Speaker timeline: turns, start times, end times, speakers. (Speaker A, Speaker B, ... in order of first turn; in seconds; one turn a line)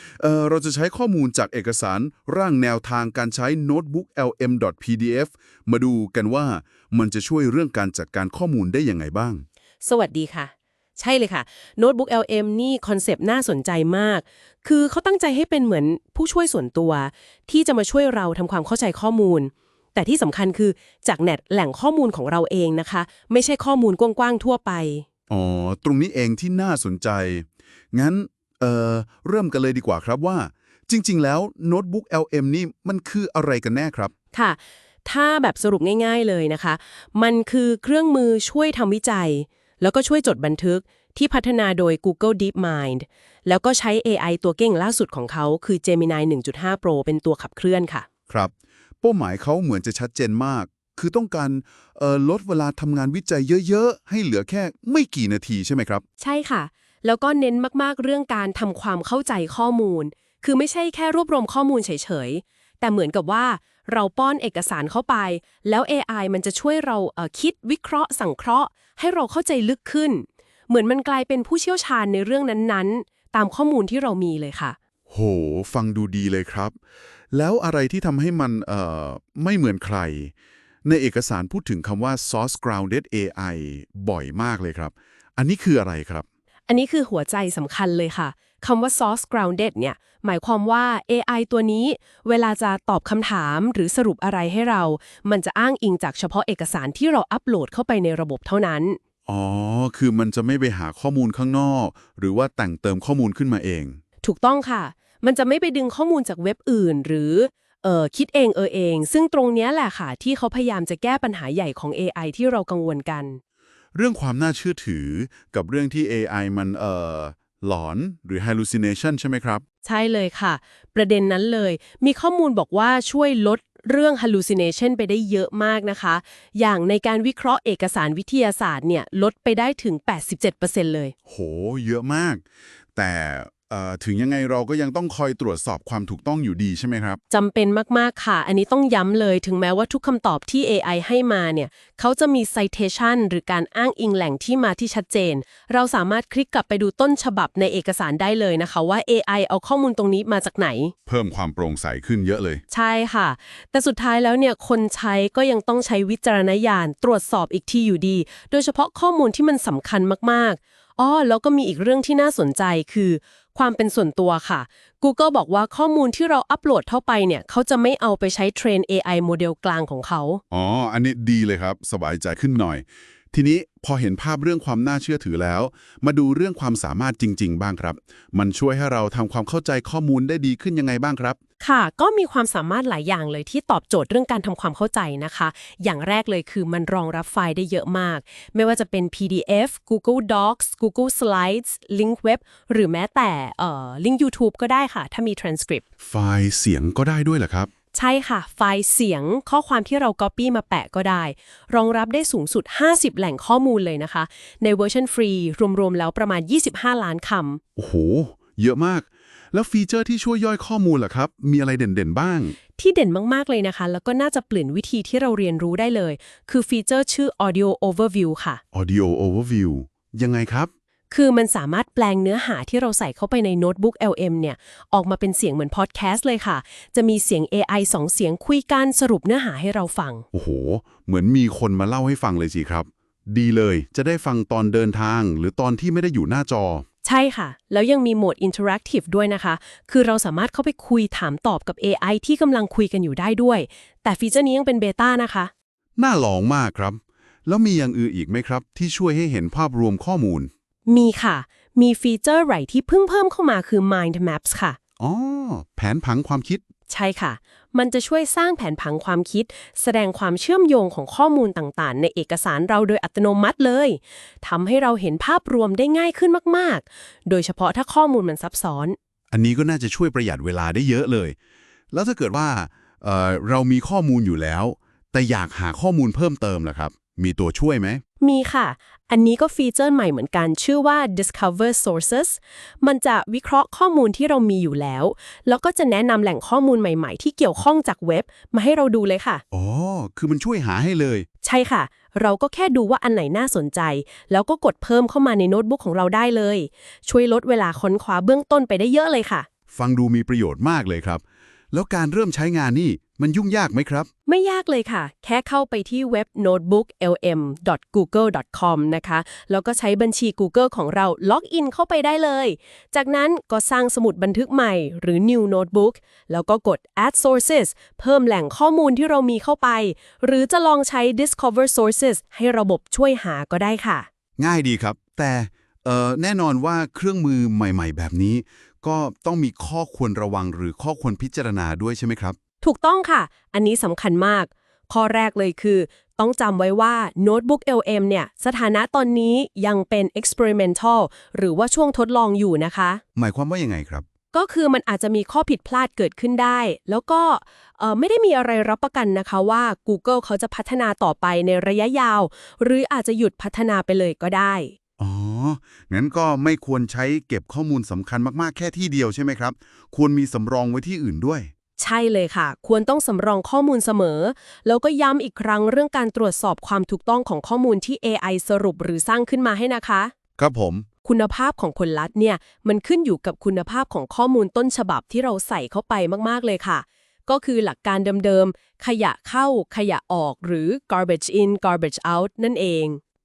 Speaker A: 0.2-9.4
Speaker B: 9.8-25.1
Speaker A: 25.3-34.1
Speaker B: 34.3-48.1
Speaker A: 48.3-56.0
Speaker B: 56.2-74.8
Speaker A: 75.1-76.8
Speaker A: 77.3-80.3
Speaker A: 80.8-86.2
Speaker B: 86.7-99.0
Speaker A: 99.3-104.0
Speaker B: 104.2-113.4
Speaker A: 114.0-119.6
Speaker B: 119.8-131.1
Speaker A: 131.3-132.4
Speaker A: 132.9-137.2
Speaker B: 137.3-150.9
Speaker A: 151.1-152.6
Speaker B: 152.7-170.4
Speaker A: 170.5-181.4
Speaker B: 181.6-195.8
Speaker A: 196.1-197.7
Speaker B: 197.9-207.6
Speaker A: 207.8-212.6
Speaker B: 212.8-218.6
Speaker A: 218.7-220.7
Speaker B: 221.1-230.2
Speaker A: 230.3-236.8
Speaker B: 237.0-245.5
Speaker A: 246.0-250.5
Speaker B: 250.9-254.8
Speaker A: 255.0-256.6
Speaker B: 256.9-269.0
Speaker A: 269.3-271.4
Speaker A: 271.9-278.0
Speaker B: 278.2-289.4
Speaker A: 289.5-291.3
Speaker B: 291.4-299.5
Speaker A: 299.7-304.1
Speaker B: 304.3-324.1
Speaker A: 324.4-332.4
Speaker B: 332.6-343.0
Speaker A: 343.1-344.1
Speaker B: 344.3-354.8
Speaker A: 355.0-361.5
Speaker B: 361.8-370.1
Speaker A: 370.4-370.9
Speaker B: 371.1-383.0